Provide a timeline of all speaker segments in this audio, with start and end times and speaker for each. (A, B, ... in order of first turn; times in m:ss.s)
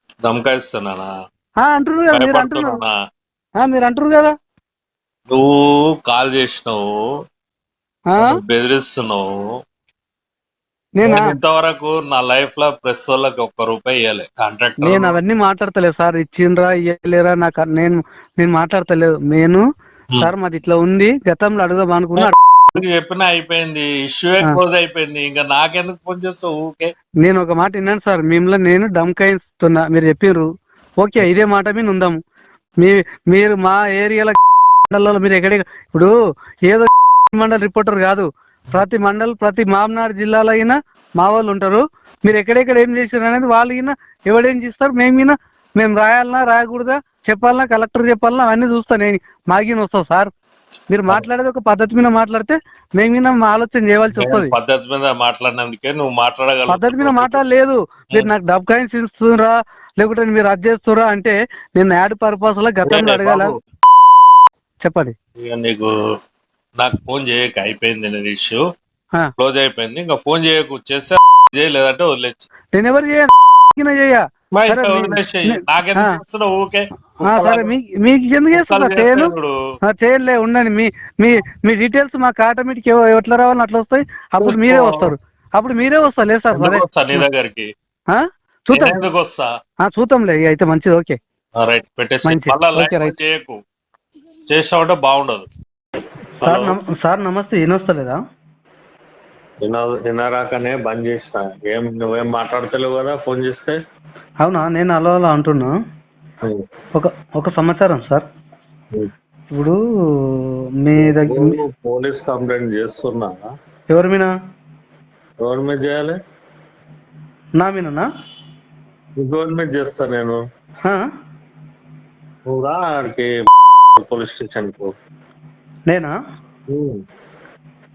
0:00.2-0:01.1 A
0:01.6-0:02.8 B
0:02.1-0:02.9 A
0:03.6-0:04.3 B
0:05.3-0:06.9 A
0:08.1-0:08.4 B
0:08.2-0:09.3 A
0:11.0-0:11.3 B
0:11.0-0:15.2 A
0:14.8-0:19.7 B
0:20.2-0:22.3 B
0:22.2-0:26.9 A
0:27.2-0:30.5 B
0:31.0-0:32.2 B
0:32.8-0:36.1 B
0:36.7-0:50.3 B
0:50.9-0:54.5 B
0:54.2-0:57.4 A
0:56.7-1:03.5 B
1:02.9-1:03.5 A
1:04.8-1:05.1 B
1:05.4-1:05.9 A
1:06.8-1:08.6 A
1:09.4-1:12.5 A
1:12.7-1:16.2 B
1:14.6-1:17.7 A
1:17.2-1:19.3 B
1:18.5-1:19.5 A
1:19.9-1:27.2 B
1:24.4-1:25.1 A
1:26.5-1:27.7 A
1:28.1-1:29.0 B
1:28.7-1:29.5 A
1:29.8-1:31.2 B
1:31.6-1:33.6 A
1:32.2-1:33.2 B
1:34.5-1:35.5 A
1:36.4-1:36.8 A
1:36.4-1:38.2 B
1:39.6-1:43.8 A
1:44.4-1:45.7 B
1:47.0-1:48.2 B
1:49.6-1:51.6 B
1:51.0-1:53.4 A
1:53.9-1:54.3 B
1:55.4-1:56.2 A
1:57.6-1:58.1 B
1:59.2-2:00.4 A
2:02.5-2:03.3 A
2:04.0-2:04.9 A
2:05.9-2:06.2 B
2:06.7-2:07.0 A